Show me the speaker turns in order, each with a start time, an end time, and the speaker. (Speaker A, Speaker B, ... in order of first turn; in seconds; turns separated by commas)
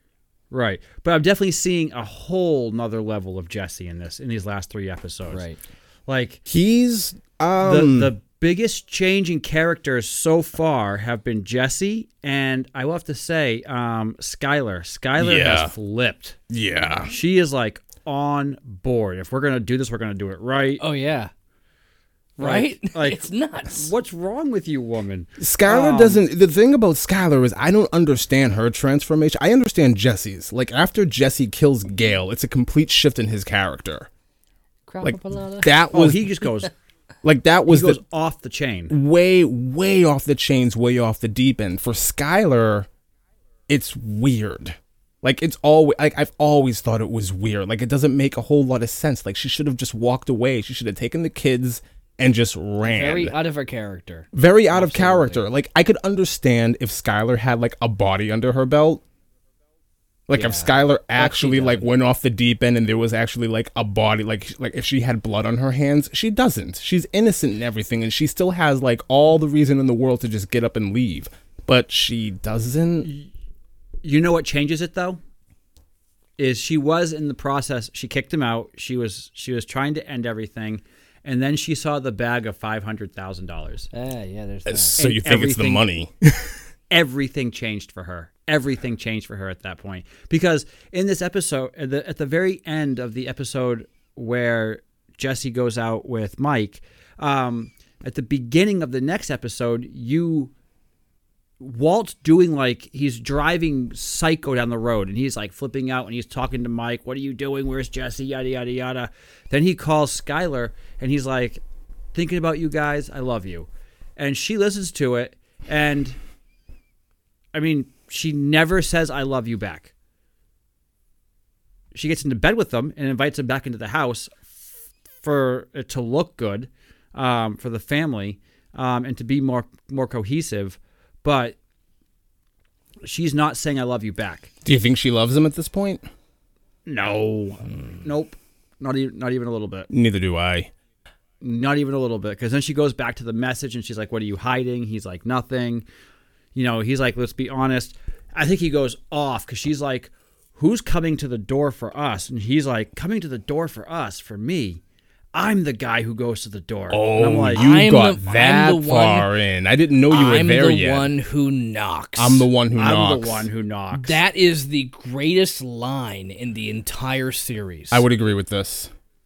Speaker A: 0.5-5.4, Speaker B: 5.3-5.6, Speaker A: 6.1-6.4, Speaker C: 6.5-8.1, Speaker A: 7.6-16.4, Speaker C: 15.2-15.7, Speaker C: 16.5-17.1, Speaker A: 17.0-20.8, Speaker B: 20.8-21.3, Speaker B: 22.4-23.9, Speaker A: 22.4-26.2, Speaker C: 25.4-34.1, Speaker B: 34.9-35.7, Speaker C: 35.0-36.3, Speaker A: 35.9-36.7, Speaker C: 37.2-38.0, Speaker A: 37.7-39.0, Speaker C: 38.9-42.9, Speaker C: 43.7-53.4, Speaker B: 52.8-55.4, Speaker C: 54.3-59.0, Speaker C: 60.3-73.1, Speaker B: 60.3-61.9, Speaker A: 73.0-73.3, Speaker A: 74.0-75.2, Speaker A: 76.4-83.9, Speaker B: 83.9-85.0, Speaker C: 84.7-86.6, Speaker A: 85.0-85.9, Speaker A: 86.9-100.5, Speaker A: 101.6-111.6, Speaker A: 112.1-116.2, Speaker A: 117.5-119.9, Speaker A: 121.9-124.6, Speaker A: 125.2-131.6, Speaker A: 133.0-134.5, Speaker C: 134.7-136.1, Speaker A: 136.9-139.9, Speaker C: 139.9-140.7, Speaker A: 141.4-145.9, Speaker A: 146.6-154.8, Speaker A: 155.3-157.7, Speaker C: 156.9-161.1, Speaker B: 157.6-159.3, Speaker B: 160.1-162.5, Speaker C: 162.2-163.5, Speaker A: 162.7-164.2, Speaker B: 163.9-168.1, Speaker C: 167.9-168.9